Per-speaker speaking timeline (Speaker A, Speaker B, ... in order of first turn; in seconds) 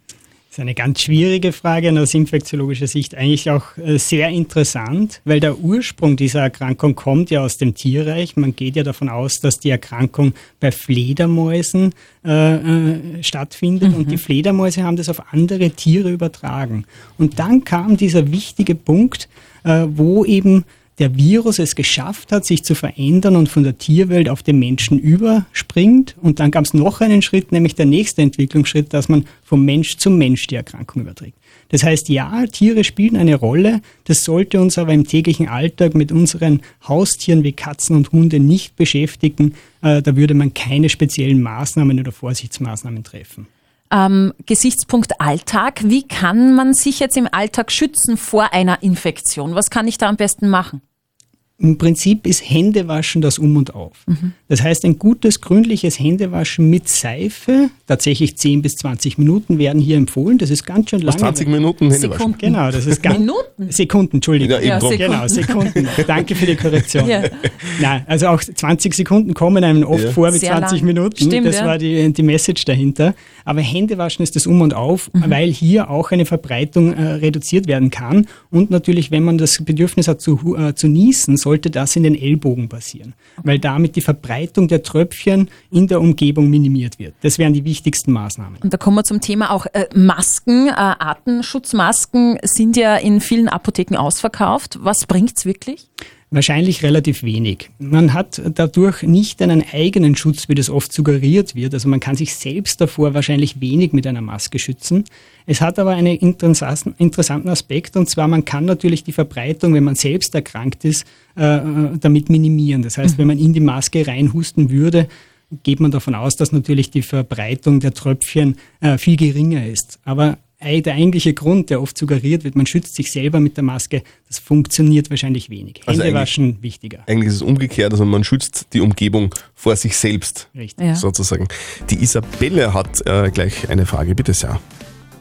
Speaker A: 0.5-43.5, 51.6-61.5, 62.4-88.6, 96.3-127.0, 130.5-130.8
Speaker B: 13.8-14.2, 43.9-50.8, 61.9-63.7, 64.6-65.7, 67.0-67.3, 70.3-71.7, 88.6-95.8
Speaker C: 61.0-63.1, 64.4-65.4, 69.9-70.2, 125.9-126.3, 127.1-134.6